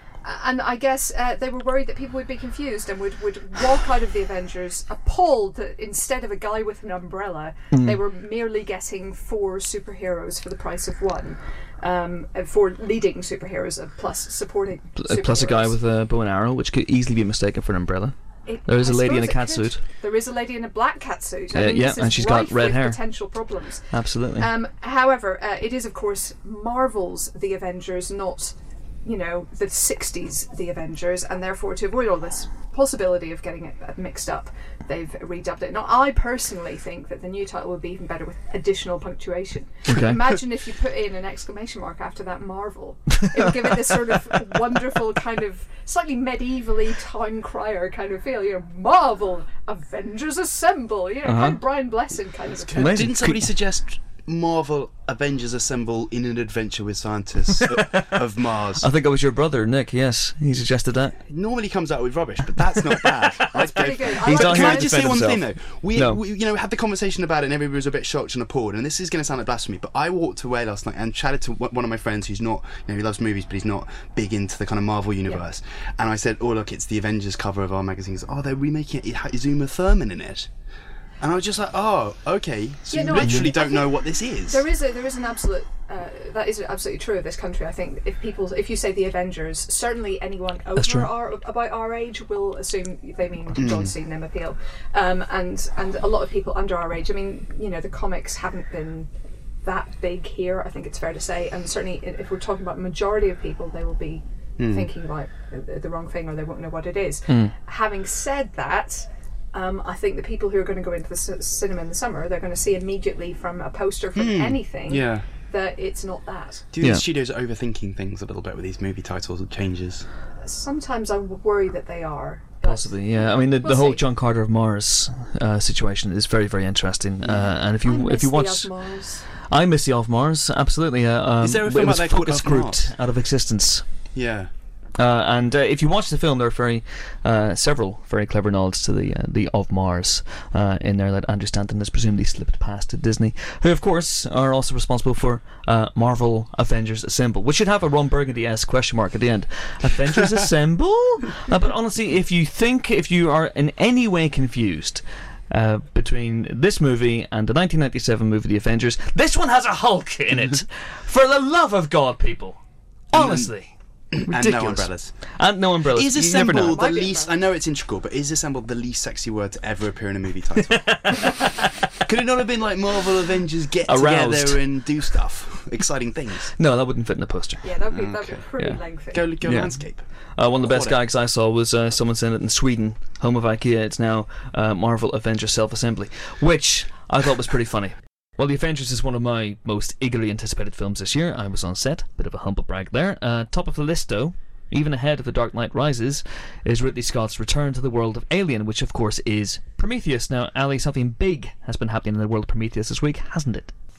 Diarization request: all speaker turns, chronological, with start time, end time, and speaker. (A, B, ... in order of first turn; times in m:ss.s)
0:00.2-0:15.8 A
0:07.7-0:08.0 B
0:15.0-0:19.8 B
0:18.4-0:53.1 A
0:21.5-0:23.0 B
0:23.9-0:24.5 B
0:39.9-0:40.4 B
0:51.2-0:51.6 B
0:52.5-0:58.9 C
0:52.8-0:53.5 B
0:57.7-0:58.1 B
0:58.8-1:01.2 B
1:01.3-1:20.5 C
1:03.6-1:05.1 A
1:04.2-1:06.2 B
1:21.2-1:24.7 C
1:22.9-1:39.1 A
1:23.2-1:23.5 B
1:30.8-1:31.1 B
1:33.5-1:33.9 C
1:39.6-1:56.7 A
1:44.6-1:44.9 C
1:47.3-1:47.5 B
1:54.1-1:55.3 C
1:56.7-2:00.1 C
2:00.4-2:04.0 A
2:02.6-2:13.8 B
2:07.7-2:09.3 A
2:11.4-2:12.9 C
2:14.1-2:14.5 C
2:15.0-2:42.6 B
2:43.1-2:46.8 B
2:43.1-2:43.5 C
2:44.1-2:45.3 C
2:45.9-2:51.1 C
2:46.6-2:47.4 A
2:50.6-2:51.7 B
2:52.0-2:56.5 C
2:53.9-2:55.1 B
2:56.6-2:57.7 B
2:57.6-2:59.7 A
2:57.9-2:58.5 C
2:58.6-3:23.7 B
2:59.1-3:00.0 C
3:00.6-3:01.0 C